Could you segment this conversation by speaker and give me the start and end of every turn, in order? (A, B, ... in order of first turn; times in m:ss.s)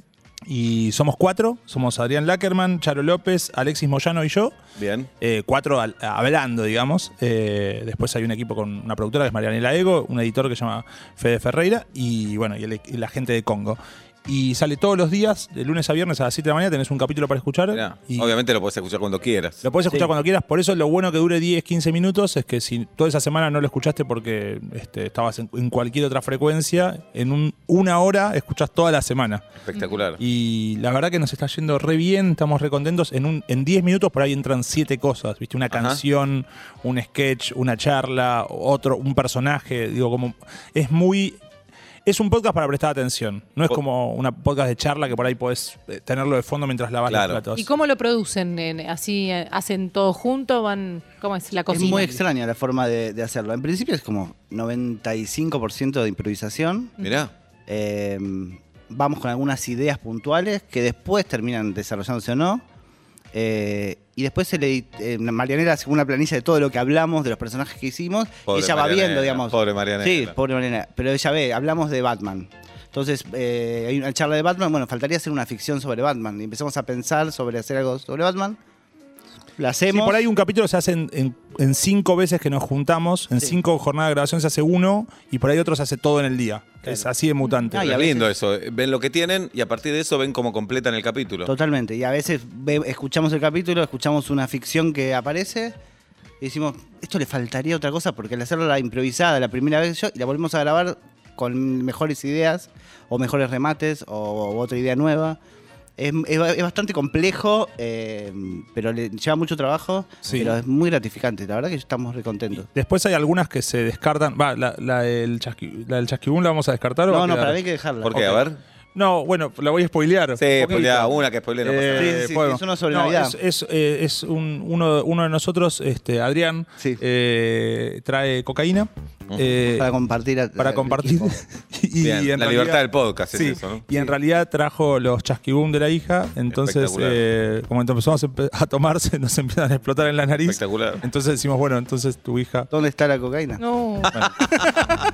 0:00.5-0:04.6 A
0:04.8-0:05.1 B
0:05.2-0:18.3 A
0:17.7-0:19.6 B
0:19.6-0:29.5 A
0:29.6-0:30.2 B
0:30.2-0:41.4 A
0:35.7-0:36.0 B
0:42.0-0:47.7 A
0:47.1-0:47.4 B
0:47.5-0:52.2 C
0:51.7-0:56.9 D
0:57.0-0:57.3 B
0:57.7-1:02.6 D
1:03.3-1:18.6 D
1:08.5-1:10.4 B
1:19.6-1:20.2 D
1:19.9-1:27.9 A
1:27.7-1:28.3 D
1:27.8-1:31.5 B
1:31.5-1:35.8 D
1:36.4-1:45.4 D
1:46.0-1:52.7 D
1:50.2-1:50.6 A
1:52.7-1:57.6 A
1:57.1-1:58.4 D
1:58.0-1:58.6 B
1:59.0-2:01.1 A
2:00.4-2:02.2 B
2:00.7-2:01.0 D
2:01.6-2:09.9 A
2:01.9-2:03.4 D
2:09.3-2:09.6 B
2:09.8-2:11.4 D
2:10.6-2:22.7 A
2:12.0-2:14.0 B
2:16.5-2:17.2 B
2:20.5-2:21.0 B
2:22.7-2:23.6 D
2:23.6-2:24.1 C
2:24.2-2:25.0 A
2:24.2-2:25.0 B
2:24.6-2:24.9 D